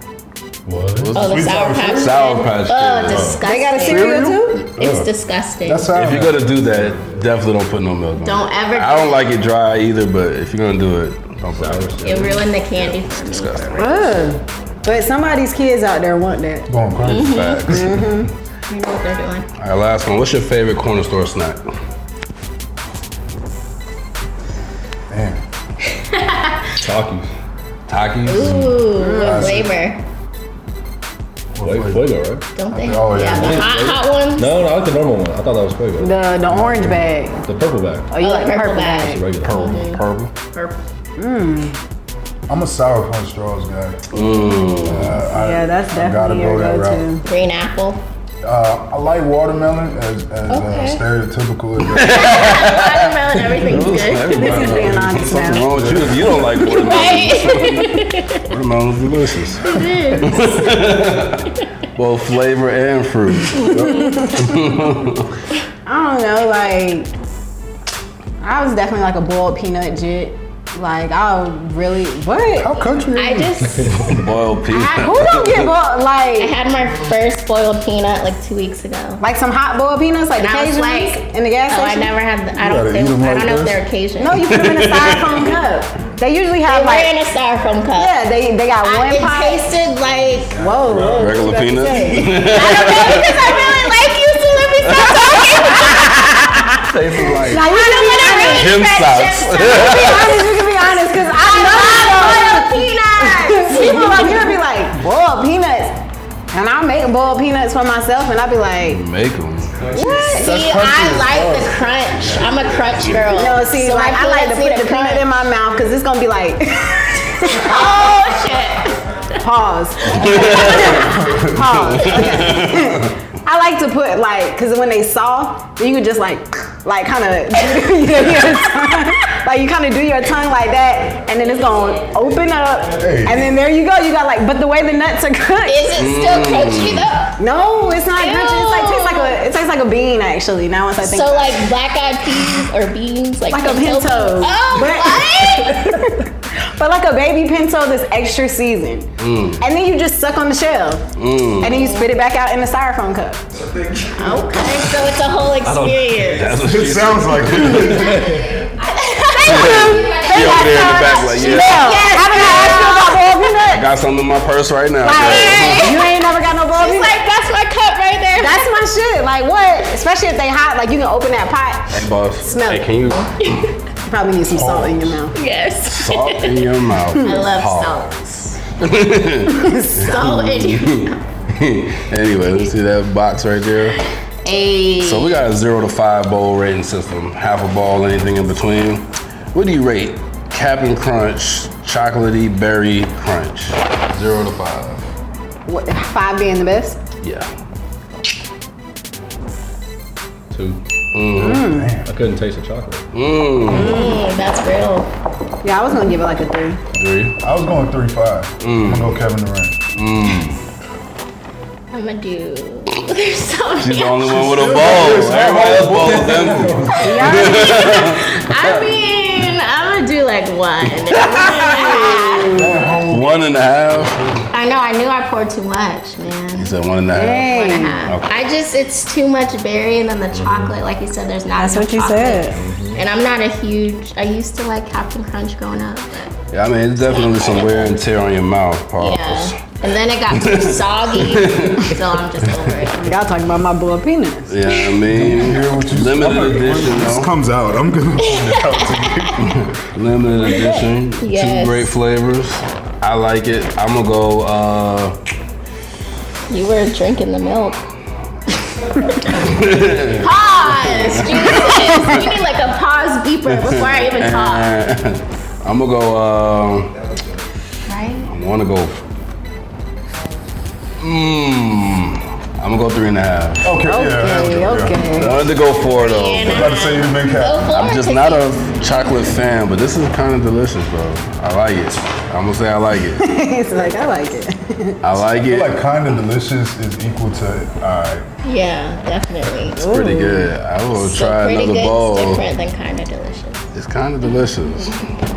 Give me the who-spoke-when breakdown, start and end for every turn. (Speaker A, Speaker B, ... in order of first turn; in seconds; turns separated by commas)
Speaker A: 0.7-1.1, Speaker B: 0.9-3.3, Speaker C: 1.1-2.2, Speaker D: 1.1-5.9, Speaker A: 3.1-3.4, Speaker E: 3.4-4.6, Speaker C: 3.7-5.1, Speaker C: 5.6-6.7, Speaker B: 5.9-14.0, Speaker D: 8.2-9.3, Speaker A: 11.5-12.5, Speaker D: 12.0-14.2, Speaker E: 13.8-16.7, Speaker C: 16.7-18.1, Speaker D: 17.0-17.7, Speaker B: 17.1-18.0, Speaker E: 17.6-18.3, Speaker D: 18.7-19.5, Speaker B: 19.6-21.7, Speaker C: 25.1-25.4, Speaker D: 26.0-26.6, Speaker A: 26.8-27.3, Speaker B: 27.9-28.9, Speaker D: 28.2-30.0, Speaker C: 28.4-29.7, Speaker E: 28.9-29.7, Speaker C: 31.6-32.1, Speaker A: 31.6-32.5, Speaker D: 32.5-34.6, Speaker C: 32.7-33.8, Speaker A: 33.1-38.1, Speaker E: 36.0-37.4, Speaker E: 38.1-39.2, Speaker D: 38.2-40.0, Speaker A: 39.0-39.8, Speaker B: 39.4-40.3, Speaker E: 41.2-41.8, Speaker C: 42.5-44.1, Speaker D: 44.1-45.1, Speaker B: 44.1-45.2, Speaker C: 44.8-47.1, Speaker E: 45.2-47.2, Speaker D: 47.2-48.0, Speaker C: 48.4-52.4, Speaker D: 50.5-51.0, Speaker B: 51.8-65.3, Speaker D: 52.1-54.8, Speaker E: 54.3-55.7, Speaker C: 54.4-56.4, Speaker D: 56.6-58.4, Speaker D: 59.6-60.7, Speaker D: 63.5-64.1, Speaker E: 63.7-64.7, Speaker C: 63.8-64.1, Speaker E: 65.8-67.1, Speaker E: 68.4-72.7, Speaker C: 72.5-74.0, Speaker D: 73.2-74.1, Speaker A: 73.8-74.1, Speaker B: 73.9-75.7, Speaker E: 74.7-76.5, Speaker D: 74.7-75.1, Speaker D: 76.4-79.2, Speaker E: 79.2-82.1, Speaker D: 80.4-84.5, Speaker C: 82.5-83.8, Speaker E: 84.2-87.1, Speaker B: 84.5-85.5, Speaker D: 86.7-88.3, Speaker E: 88.0-89.7, Speaker D: 88.8-90.6, Speaker E: 90.5-92.5, Speaker A: 90.9-91.2, Speaker B: 91.1-93.5, Speaker D: 92.3-96.5, Speaker B: 94.8-95.1, Speaker E: 94.8-98.8, Speaker B: 96.9-97.7, Speaker D: 97.6-104.6, Speaker B: 98.4-100.4, Speaker E: 99.7-109.0, Speaker B: 108.9-109.9, Speaker C: 109.9-111.8, Speaker D: 109.9-115.5, Speaker E: 110.0-110.3, Speaker E: 113.2-118.1, Speaker D: 117.5-119.1, Speaker E: 119.4-135.8, Speaker B: 120.1-123.1, Speaker D: 131.4-132.1, Speaker C: 133.0-133.6, Speaker D: 135.7-137.4, Speaker B: 135.9-137.1, Speaker E: 137.4-141.6, Speaker D: 138.1-139.4, Speaker D: 141.0-145.9, Speaker E: 143.5-149.1, Speaker B: 149.2-149.6, Speaker E: 149.6-151.0, Speaker B: 151.2-151.8, Speaker E: 151.6-153.4, Speaker D: 151.7-152.1, Speaker D: 154.1-156.5, Speaker A: 155.6-158.6, Speaker B: 156.2-158.4, Speaker C: 157.2-158.3, Speaker D: 158.5-163.7, Speaker E: 159.4-163.9, Speaker B: 159.4-162.9, Speaker B: 163.7-166.0, Speaker E: 165.0-167.2, Speaker D: 165.1-168.8, Speaker E: 168.3-173.1, Speaker B: 171.9-173.6, Speaker E: 174.0-175.3, Speaker C: 174.5-175.3, Speaker D: 175.3-178.6, Speaker B: 175.8-184.0, Speaker E: 179.5-180.5, Speaker D: 180.0-181.2, Speaker D: 184.4-185.5, Speaker B: 185.0-195.1, Speaker E: 195.7-197.0, Speaker B: 197.2-197.5, Speaker A: 200.5-200.8, Speaker B: 201.1-201.7, Speaker E: 201.4-202.0, Speaker C: 201.7-202.1, Speaker A: 202.0-203.0, Speaker B: 203.1-204.1, Speaker E: 203.7-204.2, Speaker D: 203.7-205.1, Speaker E: 205.6-206.8, Speaker B: 206.9-207.4, Speaker C: 207.4-209.8, Speaker B: 208.6-209.1, Speaker B: 209.9-210.6, Speaker D: 211.9-214.5, Speaker B: 213.8-218.3, Speaker C: 214.4-217.5, Speaker A: 216.5-216.8, Speaker E: 217.0-217.9, Speaker D: 217.3-222.6, Speaker B: 221.1-222.2, Speaker E: 222.4-222.7, Speaker C: 222.5-223.3, Speaker B: 223.1-224.2, Speaker C: 223.9-224.4, Speaker D: 224.5-226.7, Speaker B: 226.5-228.3, Speaker E: 227.1-228.0, Speaker D: 227.4-236.3, Speaker A: 230.3-230.8, Speaker E: 231.6-232.6, Speaker A: 232.5-233.0, Speaker B: 236.5-239.6, Speaker D: 237.0-237.9, Speaker D: 239.0-243.1, Speaker B: 240.3-242.0, Speaker E: 243.0-244.5, Speaker B: 244.5-247.3, Speaker D: 244.7-245.0, Speaker C: 245.1-249.6, Speaker D: 248.2-248.6, Speaker B: 249.4-255.2, Speaker E: 250.4-250.9, Speaker D: 251.2-251.9, Speaker D: 256.5-257.8, Speaker B: 259.3-262.4, Speaker D: 260.2-264.7, Speaker B: 263.5-266.9, Speaker D: 267.9-268.3, Speaker B: 268.3-269.0, Speaker B: 271.0-273.7, Speaker C: 273.6-275.4, Speaker E: 273.8-275.4, Speaker B: 275.1-276.8, Speaker D: 275.8-279.3, Speaker C: 276.4-277.9, Speaker B: 277.7-283.3, Speaker E: 283.2-285.0, Speaker B: 285.0-285.8, Speaker C: 285.3-288.3, Speaker D: 288.4-289.8, Speaker E: 289.8-290.5, Speaker B: 289.8-292.4, Speaker D: 290.9-293.7, Speaker B: 293.7-295.0